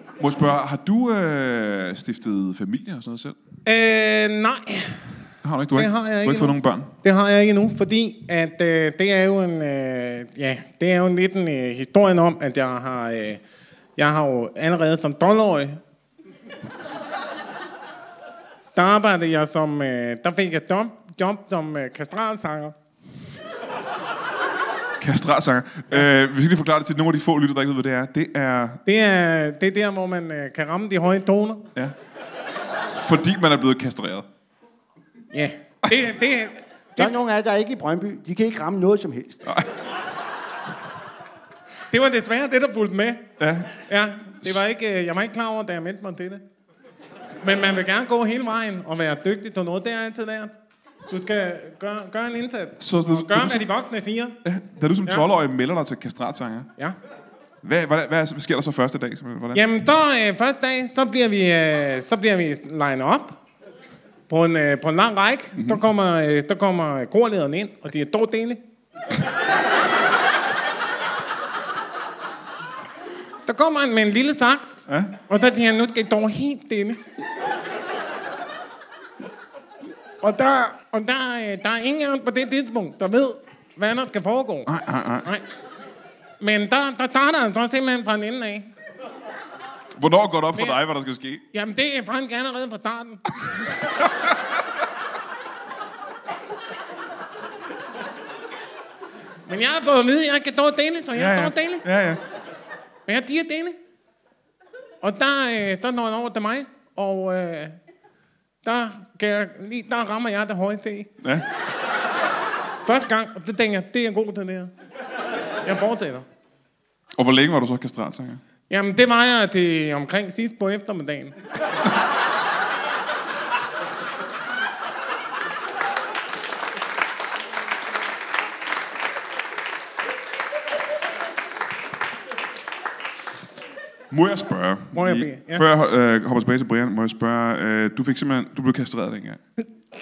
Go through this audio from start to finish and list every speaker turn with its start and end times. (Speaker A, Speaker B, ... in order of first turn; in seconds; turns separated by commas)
Speaker A: 0.2-3.4, Speaker B: 3.6-5.2, Speaker A: 5.4-6.9, Speaker B: 5.8-13.4, Speaker B: 14.0-15.8, Speaker B: 18.7-22.7, Speaker A: 25.0-28.8, Speaker B: 28.9-31.7, Speaker A: 32.9-34.3, Speaker B: 35.3-37.2, Speaker C: 37.0-39.4, Speaker A: 39.5-39.7, Speaker B: 41.9-46.4, Speaker A: 43.4-43.7, Speaker B: 47.4-50.6, Speaker B: 51.1-54.4, Speaker A: 52.8-53.6, Speaker A: 54.4-56.7, Speaker A: 57.6-59.6, Speaker B: 59.5-63.4, Speaker B: 64.3-68.6, Speaker A: 65.5-65.8, Speaker B: 73.5-77.0, Speaker A: 74.9-75.1, Speaker B: 80.2-84.7, Speaker A: 84.7-85.3, Speaker B: 86.4-88.7, Speaker A: 89.9-91.4, Speaker B: 91.5-93.6, Speaker A: 94.0-94.3, Speaker B: 99.5-101.8, Speaker A: 101.1-102.2, Speaker B: 103.0-103.8, Speaker B: 105.0-107.8, Speaker B: 108.6-111.1, Speaker B: 112.8-114.7, Speaker B: 115.6-116.3, Speaker A: 117.2-118.4, Speaker B: 118.7-121.3, Speaker A: 134.1-139.4, Speaker B: 134.9-135.6